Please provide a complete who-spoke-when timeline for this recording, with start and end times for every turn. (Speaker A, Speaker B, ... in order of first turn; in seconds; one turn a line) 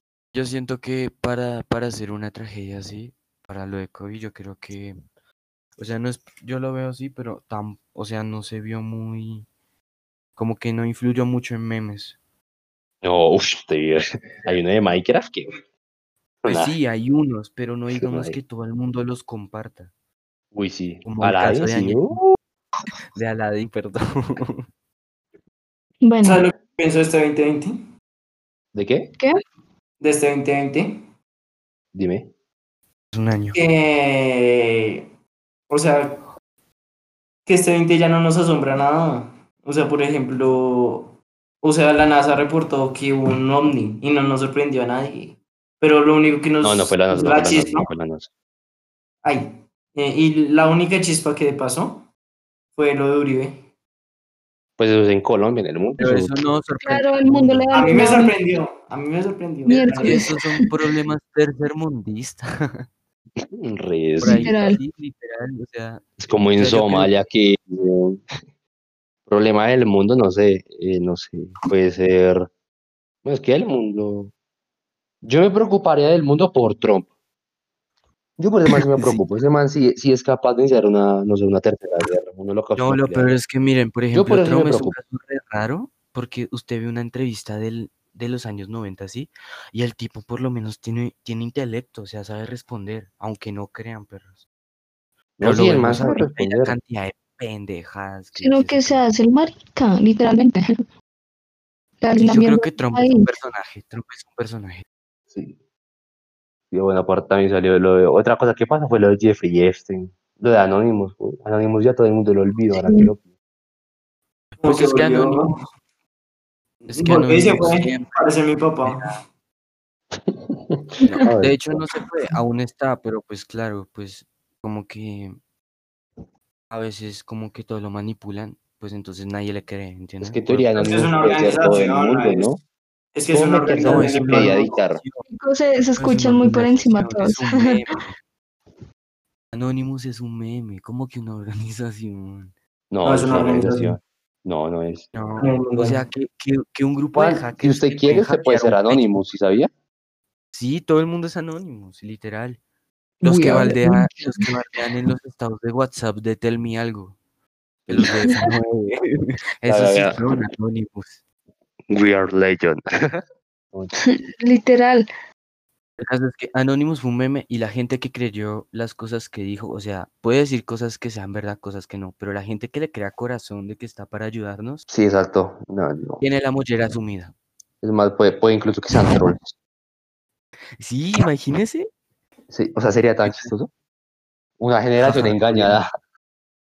Speaker A: 0.3-5.0
Speaker A: 5.8-9.5
Speaker A: 10.4-12.2
Speaker B: 13.0-15.5
Speaker B: 16.4-16.7
Speaker A: 16.5-19.9
Speaker B: 17.9-18.4
Speaker B: 20.5-22.2
Speaker A: 21.0-22.2
Speaker A: 23.1-24.7
Speaker C: 26.0-26.4
Speaker D: 26.2-27.8
Speaker B: 28.7-29.1
Speaker D: 30.0-31.1
Speaker B: 31.9-32.3
Speaker A: 33.1-33.6
Speaker D: 33.5-35.1
Speaker D: 35.7-36.2
Speaker D: 37.5-47.9
Speaker B: 46.6-48.3
Speaker D: 49.2-52.1
Speaker D: 52.8-53.6
Speaker B: 54.8-56.5
Speaker A: 56.0-58.1
Speaker C: 56.8-58.3
Speaker D: 57.7-60.3
Speaker C: 59.7-60.6
Speaker A: 60.0-62.9
Speaker B: 63.4-64.5
Speaker A: 64.2-67.1
Speaker C: 64.2-64.8
Speaker B: 66.2-68.2
Speaker B: 69.3-72.5
Speaker B: 73.2-74.3
Speaker B: 75.2-77.1
Speaker B: 78.4-83.4
Speaker A: 78.7-79.2
Speaker A: 82.8-94.4
Speaker B: 84.1-85.0
Speaker B: 95.4-96.8
Speaker A: 95.4-99.0
Speaker C: 98.4-100.7
Speaker C: 102.0-103.3
Speaker A: 102.2-104.8
Speaker B: 105.3-105.6
Speaker B: 106.7-113.2
Speaker C: 112.8-113.1
Speaker A: 114.5-115.6
Speaker D: 114.6-115.5
Speaker A: 116.8-118.3
Speaker D: 116.9-119.2
Speaker A: 118.8-119.2
Speaker B: 120.2-121.8
Speaker A: 121.0-125.4
Speaker A: 126.7-130.9
Speaker B: 130.2-132.6
Speaker D: 130.8-132.5
Speaker D: 133.2-134.7
Speaker B: 133.3-135.0
Speaker A: 133.7-135.2
Speaker C: 135.3-137.8
Speaker A: 136.0-138.2
Speaker A: 139.5-142.5
Speaker B: 142.9-145.1
Speaker D: 143.0-144.0
Speaker A: 145.1-149.2
Speaker D: 145.4-146.0
Speaker B: 147.2-149.7
Speaker A: 150.5-152.6
Speaker A: 153.2-157.2
Speaker C: 153.2-154.5
Speaker B: 153.3-153.8
Speaker B: 157.9-158.1
Speaker A: 157.9-161.2
Speaker B: 159.7-160.4
Speaker B: 161.9-163.9
Speaker C: 164.0-165.1
Speaker A: 166.0-174.9
Speaker B: 174.9-176.2
Speaker A: 176.2-177.3
Speaker B: 177.8-179.6
Speaker A: 180.8-181.9
Speaker B: 182.5-183.7
Speaker A: 183.2-183.5
Speaker B: 184.6-185.9
Speaker A: 185.0-185.8